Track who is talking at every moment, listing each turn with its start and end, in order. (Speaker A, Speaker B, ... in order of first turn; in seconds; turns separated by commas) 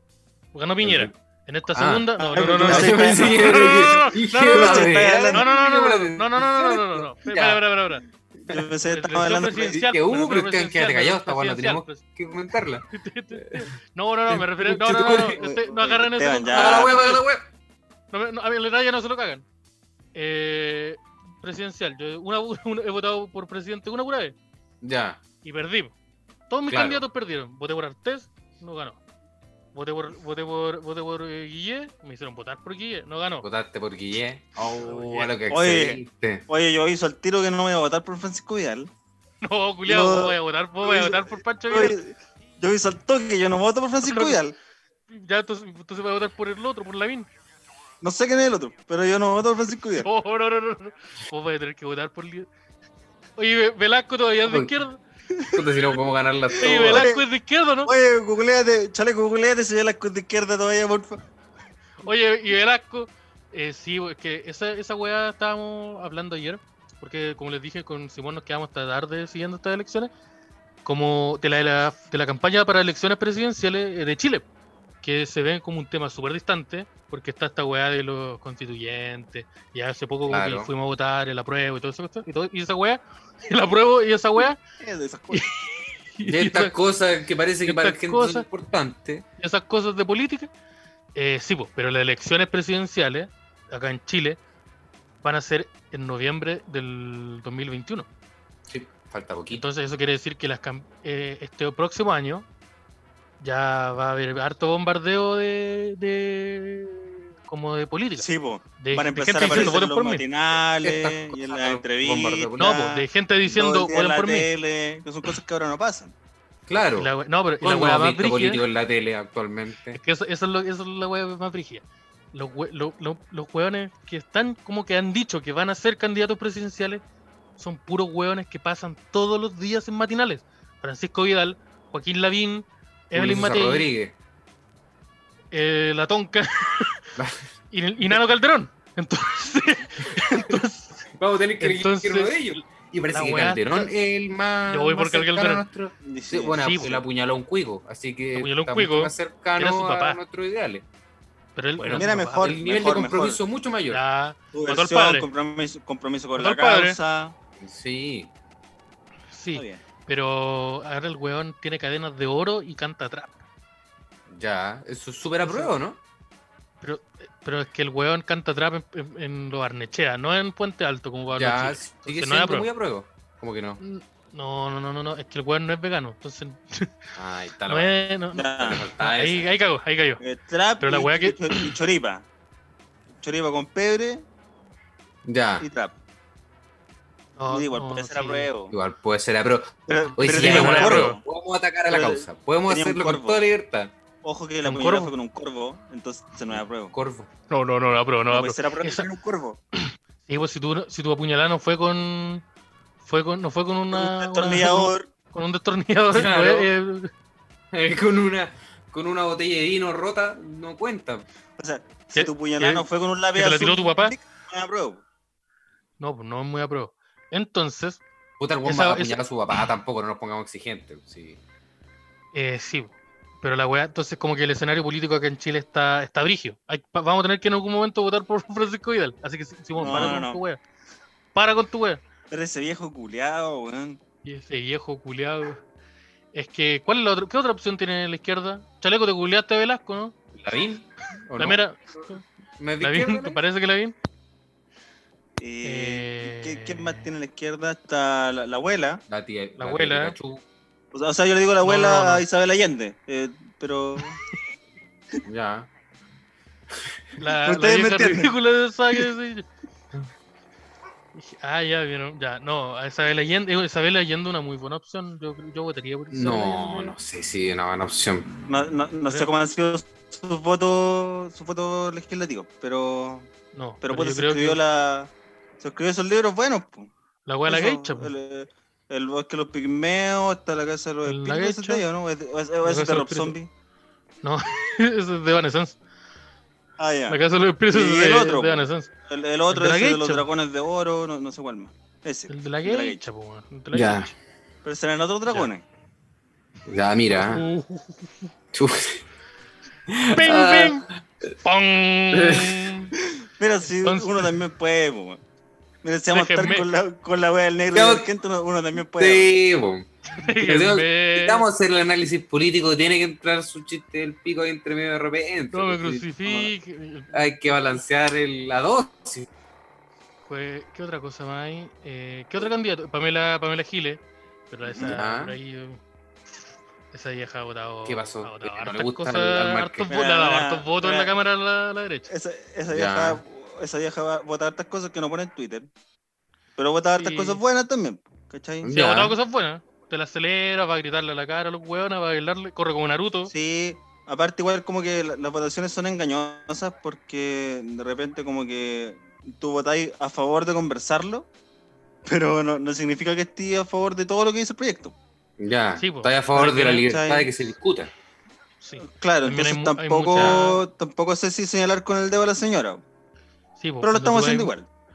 Speaker A: 0.5-8.0, Speaker B: 0.8-1.1, Speaker B: 1.7-7.6, Speaker C: 2.2-5.5, Speaker C: 8.5-9.8, Speaker A: 8.8-12.0, Speaker B: 9.7-13.6, Speaker A: 12.9-17.1, Speaker B: 14.3-15.4, Speaker C: 15.3-17.2, Speaker B: 16.5-17.4, Speaker A: 18.1-19.4, Speaker A: 20.1-24.4, Speaker B: 24.8-25.2, Speaker A: 25.4-25.9, Speaker A: 26.5-29.0, Speaker B: 26.7-27.0, Speaker A: 29.7-33.5, Speaker B: 33.4-36.4, Speaker A: 34.7-35.3, Speaker C: 35.5-38.9, Speaker A: 39.4-42.0, Speaker C: 39.9-44.5, Speaker A: 44.0-44.4, Speaker A: 45.1-47.3, Speaker C: 48.0-50.1, Speaker A: 50.0-52.5, Speaker A: 53.4-55.0, Speaker B: 54.5-54.7, Speaker C: 55.3-55.6, Speaker B: 55.5-57.1, Speaker C: 56.5-57.2, Speaker A: 56.6-57.9, Speaker C: 57.8-61.2, Speaker A: 62.0-70.1, Speaker A: 70.8-74.5, Speaker A: 75.0-84.6, Speaker B: 80.3-80.7, Speaker C: 84.8-85.5, Speaker A: 85.3-86.7, Speaker B: 86.3-89.2, Speaker A: 87.6-88.5, Speaker A: 89.4-90.5, Speaker A: 91.1-94.4, Speaker A: 95.2-98.1, Speaker B: 98.7-99.6, Speaker A: 99.5-102.5, Speaker A: 103.4-108.3, Speaker C: 108.2-116.1, Speaker A: 108.8-110.2, Speaker B: 109.5-109.7, Speaker B: 110.8-112.7, Speaker A: 112.6-114.5, Speaker B: 116.7-120.0, Speaker A: 117.0-118.6, Speaker A: 119.9-127.0, Speaker A: 127.6-133.9, Speaker B: 133.1-134.1, Speaker A: 135.5-137.1, Speaker B: 137.2-137.4, Speaker A: 137.7-141.0, Speaker B: 141.1-150.8, Speaker A: 141.6-142.5, Speaker A: 143.1-143.9, Speaker A: 144.7-145.6, Speaker C: 146.0-146.9, Speaker A: 146.6-147.0, Speaker A: 148.3-150.2, Speaker A: 151.6-152.6, Speaker B: 151.8-154.0, Speaker C: 151.9-153.4, Speaker A: 153.9-155.3, Speaker C: 154.5-157.3, Speaker A: 156.3-157.0, Speaker B: 157.6-158.3, Speaker A: 159.3-163.4, Speaker C: 159.5-159.8, Speaker B: 164.3-166.0, Speaker A: 165.4-165.7, Speaker A: 166.8-172.7, Speaker B: 171.3-173.8, Speaker A: 173.8-176.9, Speaker B: 177.2-177.9, Speaker A: 177.7-180.2, Speaker C: 178.3-178.9, Speaker B: 178.6-179.5, Speaker C: 180.2-182.2, Speaker A: 180.8-181.7, Speaker C: 183.2-184.2, Speaker B: 185.2-185.7, Speaker C: 185.6-185.9, Speaker A: 187.4-188.5, Speaker C: 187.5-188.7, Speaker B: 188.7-193.9, Speaker C: 189.9-191.2, Speaker A: 190.2-191.2, Speaker C: 191.9-193.4, Speaker C: 194.2-196.9, Speaker A: 194.6-195.1, Speaker B: 196.5-197.3, Speaker A: 197.5-199.1, Speaker C: 198.3-199.6, Speaker A: 199.8-202.4, Speaker A: 203.0-207.1, Speaker C: 203.9-205.1, Speaker B: 206.1-206.7, Speaker B: 207.7-211.2, Speaker C: 211.6-215.0, Speaker A: 212.1-214.2, Speaker A: 216.0-218.0, Speaker B: 218.4-221.4, Speaker A: 218.6-219.2, Speaker A: 222.3-230.6, Speaker C: 229.8-230.4, Speaker B: 229.9-230.2, Speaker A: 231.3-232.0, Speaker C: 232.3-234.0, Speaker A: 234.2-235.6, Speaker A: 236.3-240.1, Speaker B: 240.3-241.6, Speaker A: 241.4-242.2, Speaker B: 242.6-243.4, Speaker A: 242.8-243.9, Speaker C: 245.4-249.0, Speaker A: 245.6-247.1, Speaker B: 249.1-250.4, Speaker A: 249.6-250.1, Speaker C: 250.9-254.2, Speaker A: 251.6-252.2, Speaker B: 255.2-255.7, Speaker A: 257.2-259.5, Speaker C: 257.4-258.3, Speaker A: 261.1-266.9, Speaker B: 266.1-268.3, Speaker C: 268.4-273.3, Speaker A: 273.5-274.6, Speaker C: 273.8-276.9, Speaker A: 277.2-278.1, Speaker C: 277.4-283.5, Speaker A: 281.0-281.8, Speaker A: 282.6-283.4, Speaker A: 284.2-285.8, Speaker C: 286.8-287.2, Speaker A: 287.1-288.9, Speaker C: 287.7-293.0, Speaker A: 289.5-290.2, Speaker A: 292.3-294.1, Speaker B: 293.7-294.1, Speaker C: 294.6-295.6, Speaker B: 296.6-297.4, Speaker A: 297.1-298.3, Speaker B: 298.5-299.0, Speaker B: 299.9-301.3, Speaker A: 300.1-300.9, Speaker A: 301.4-302.9, Speaker B: 302.1-302.7, Speaker C: 303.1-305.2, Speaker A: 303.7-304.3, Speaker C: 305.8-309.3, Speaker A: 306.1-306.7, Speaker B: 307.7-308.1, Speaker B: 309.0-316.0, Speaker A: 310.1-311.4, Speaker A: 315.5-317.2, Speaker B: 317.1-319.3, Speaker A: 320.2-325.8, Speaker C: 324.6-325.0, Speaker B: 324.9-325.4, Speaker A: 326.9-332.1, Speaker B: 327.9-329.9, Speaker C: 329.9-331.1, Speaker C: 332.1-335.7, Speaker B: 332.7-333.2, Speaker C: 336.6-338.7, Speaker A: 337.0-337.4, Speaker B: 338.6-339.2, Speaker A: 338.7-343.3, Speaker C: 343.3-351.3, Speaker C: 352.1-354.9, Speaker B: 355.4-357.9, Speaker A: 355.8-356.8, Speaker C: 356.4-357.3, Speaker A: 358.6-360.6, Speaker C: 358.8-362.8, Speaker B: 360.1-360.4, Speaker A: 363.6-364.5, Speaker C: 363.8-364.7